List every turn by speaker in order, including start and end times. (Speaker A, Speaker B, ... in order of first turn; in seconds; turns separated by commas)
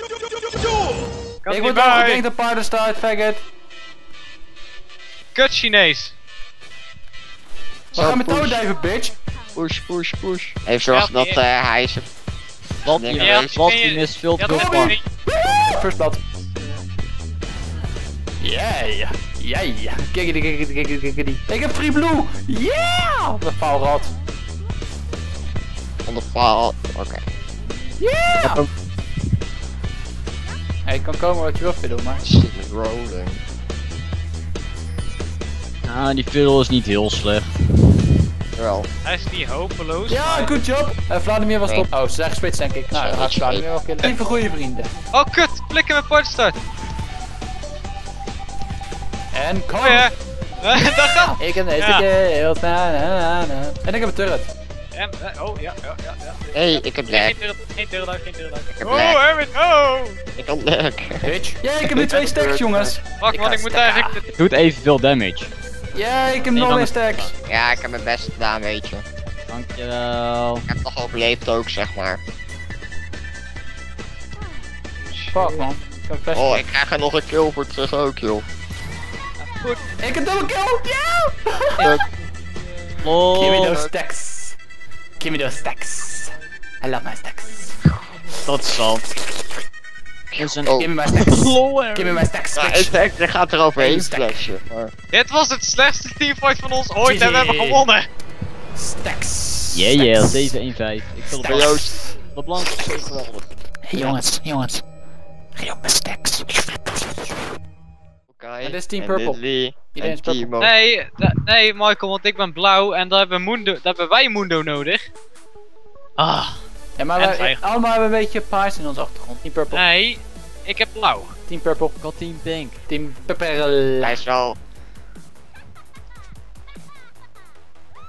Speaker A: 1.4-2.2, Speaker B: 1.5-3.4, Speaker A: 5.3-6.1, Speaker C: 7.9-8.6, Speaker B: 7.9-9.2, Speaker C: 9.5-12.1, Speaker A: 10.8-11.4, Speaker D: 12.8-15.0, Speaker C: 12.8-13.6, Speaker A: 13.2-15.0, Speaker B: 14.5-16.2, Speaker B: 18.4-24.1, Speaker C: 26.1-27.2, Speaker B: 28.0-28.6, Speaker D: 28.4-28.7, Speaker B: 30.9-32.2, Speaker C: 32.2-33.4, Speaker D: 35.8-37.5, Speaker C: 38.5-38.9, Speaker A: 39.0-40.6, Speaker B: 40.1-44.9, Speaker C: 42.9-43.6, Speaker A: 45.1-46.6, Speaker B: 49.3-50.1, Speaker A: 49.8-52.0, Speaker B: 51.3-54.5, Speaker A: 54.9-60.2, Speaker C: 56.5-57.3, Speaker C: 58.7-59.2, Speaker C: 60.4-61.3, Speaker B: 61.2-64.2, Speaker C: 61.8-62.9, Speaker A: 63.2-64.2, Speaker D: 64.3-65.5, Speaker B: 65.9-67.3, Speaker D: 66.5-67.3, Speaker C: 67.5-69.0, Speaker D: 69.5-70.6, Speaker C: 70.7-72.2, Speaker A: 75.0-75.6, Speaker B: 75.3-76.6, Speaker C: 76.3-78.4, Speaker B: 80.0-81.9, Speaker D: 83.0-83.8, Speaker B: 83.3-84.6, Speaker B: 85.2-87.8, Speaker D: 88.4-89.0, Speaker C: 90.3-90.9, Speaker D: 90.4-92.3, Speaker B: 90.7-92.9, Speaker C: 92.5-94.9, Speaker B: 93.8-94.4, Speaker A: 95.1-98.0, Speaker B: 97.0-97.9, Speaker B: 98.8-100.6, Speaker D: 99.7-103.2, Speaker B: 101.3-102.1, Speaker C: 101.4-101.9, Speaker C: 102.8-103.5, Speaker B: 103.8-104.8, Speaker C: 104.0-104.2, Speaker B: 105.5-107.1, Speaker C: 108.3-110.7, Speaker B: 108.6-109.4, Speaker B: 109.9-110.5, Speaker A: 110.6-115.1, Speaker A: 116.2-116.6, Speaker B: 117.0-119.8, Speaker A: 117.2-117.6, Speaker A: 119.7-121.3, Speaker B: 121.5-122.0, Speaker D: 122.0-122.8, Speaker B: 122.9-124.2, Speaker C: 124.0-124.6